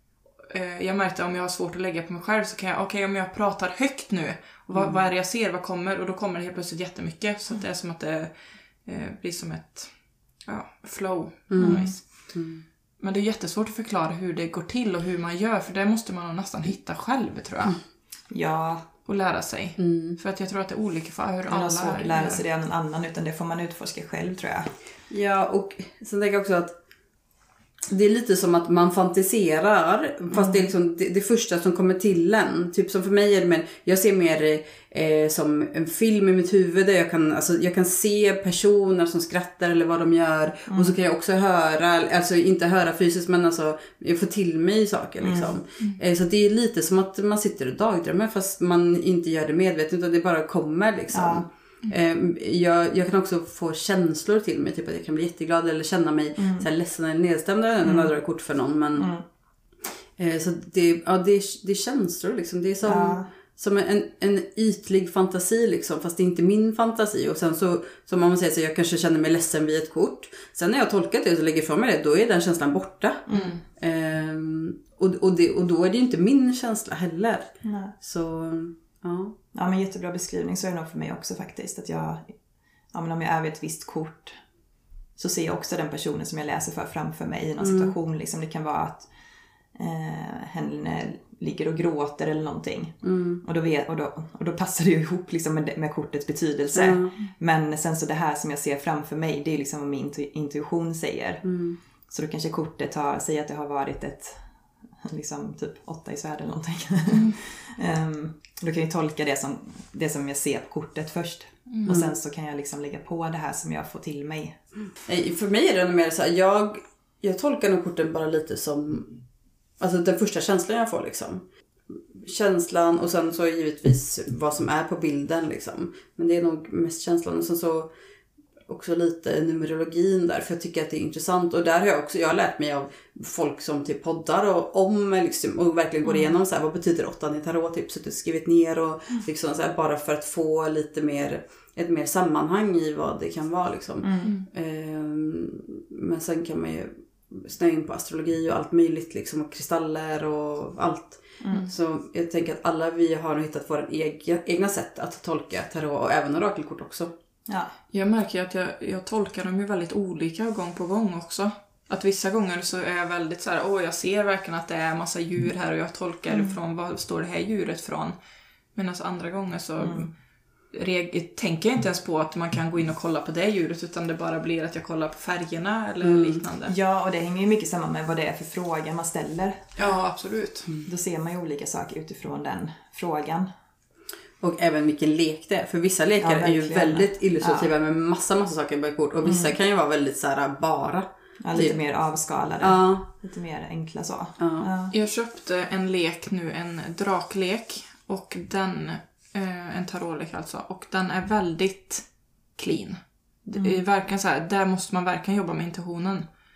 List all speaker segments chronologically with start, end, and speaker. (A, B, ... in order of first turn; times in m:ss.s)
0:00.5-0:12.3 A
0:04.7-0:05.0 B
0:11.5-0:12.6 B
0:11.6-0:12.0 C
0:13.0-0:17.8 A
0:18.3-0:18.8 C
0:19.1-0:22.4 A
0:19.8-0:20.2 B
0:21.5-0:24.7 C
0:25.1-0:26.8 B
0:27.9-0:59.1 B
0:30.3-0:30.7 C
0:40.7-0:41.0 C
0:45.2-0:45.6 C
0:51.1-0:51.5 C
0:56.4-0:56.7 C
0:57.8-0:58.1 C
0:59.0-0:59.2 C
1:00.2-1:19.4 B
1:02.8-1:03.3 C
1:13.3-1:13.5 C
1:13.3-1:13.6 A
1:17.6-1:17.9 C
1:19.5-1:22.3 C
1:22.9-1:24.4 C
1:25.2-1:29.1 C
1:27.6-1:28.0 B
1:29.8-1:41.4 C
1:33.0-1:33.4 B
1:36.7-1:37.2 B
1:41.4-1:41.8 B
1:42.1-1:44.4 C
1:45.0-1:54.6 C
1:47.1-1:47.4 A
1:51.7-1:51.9 A
1:51.9-1:52.1 B
1:55.0-1:59.2 B
1:59.8-2:07.9 B
2:08.7-2:37.1 B
2:16.0-2:16.3 C
2:24.0-2:24.3 C
2:24.2-2:24.5 A
2:31.4-2:31.7 C
2:37.5-2:37.7 C
2:37.9-2:48.2 A
2:46.3-2:46.6 C
2:48.7-2:50.2 A
2:49.8-2:50.1 C
2:50.7-2:56.8 A
2:56.0-2:56.4 B
2:56.7-2:59.8 C
2:59.8-3:00.7 A
3:00.9-3:03.5 C
3:04.4-3:11.8 B
3:06.2-3:07.7 C
3:09.2-3:09.6 C
3:11.4-3:14.9 C
3:12.6-3:13.1 B
3:14.4-3:14.7 B
3:14.9-3:26.3 A
3:23.5-3:23.8 C